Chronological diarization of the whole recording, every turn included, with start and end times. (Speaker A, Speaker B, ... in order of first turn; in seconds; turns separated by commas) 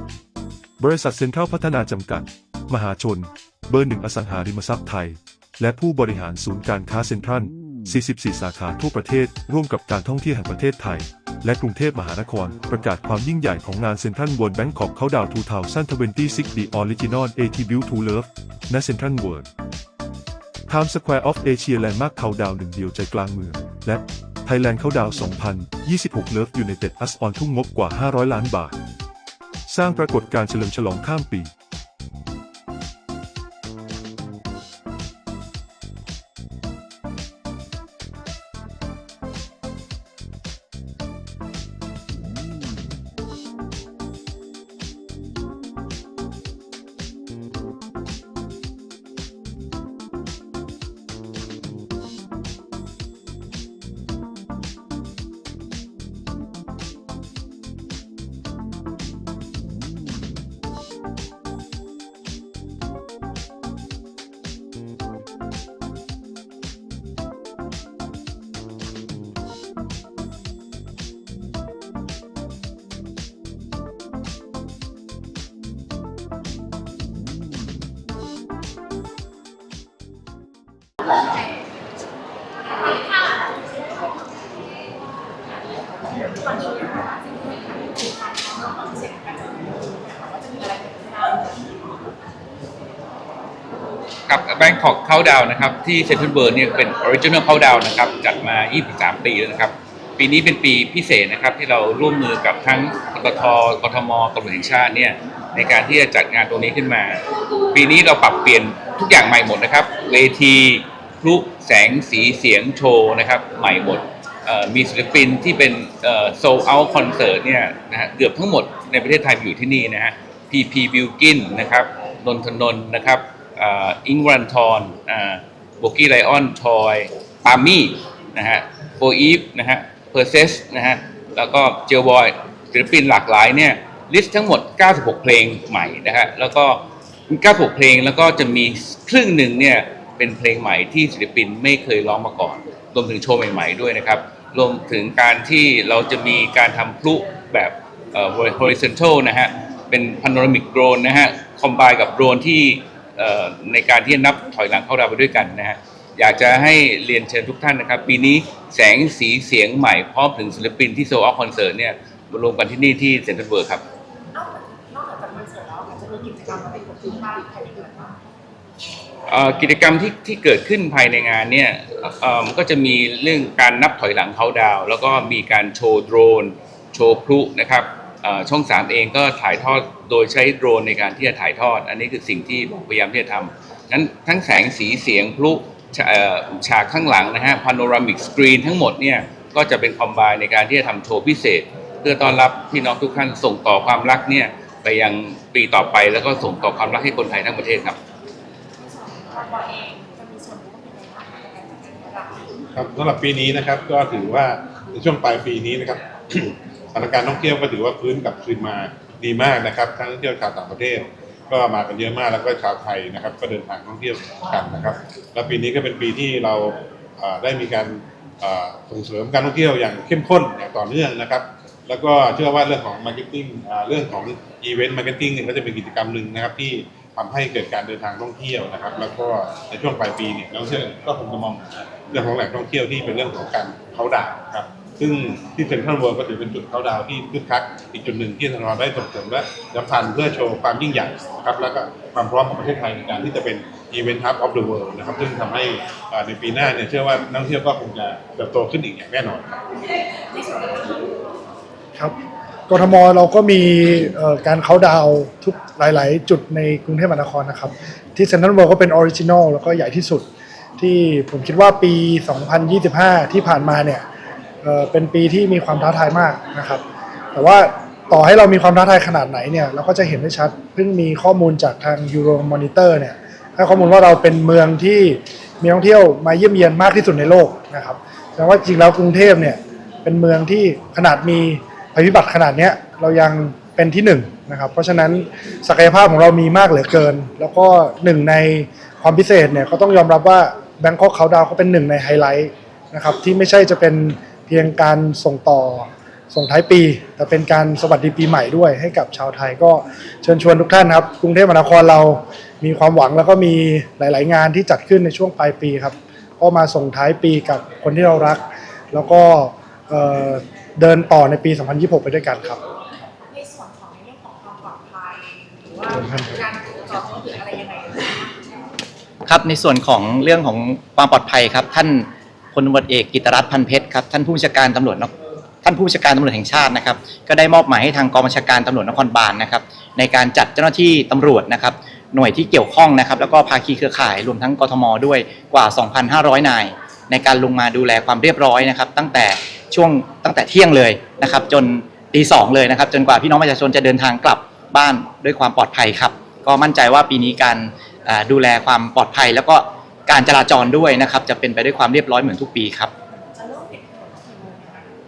Speaker A: 0.8-19.5, Speaker A: 20.7-28.8, Speaker A: 29.6-31.5, Speaker B: 86.3-91.6, Speaker C: 94.3-163.8, Speaker B: 164.3-168.2, Speaker C: 169.3-198.0, Speaker B: 198.8-202.4, Speaker D: 202.7-249.4, Speaker B: 250.4-251.0, Speaker E: 252.7-260.3, Speaker E: 260.8-264.0, Speaker E: 264.6-312.6, Speaker B: 313.3-318.4, Speaker E: 315.9-316.3, Speaker F: 319.2-352.9, Speaker B: 353.3-354.9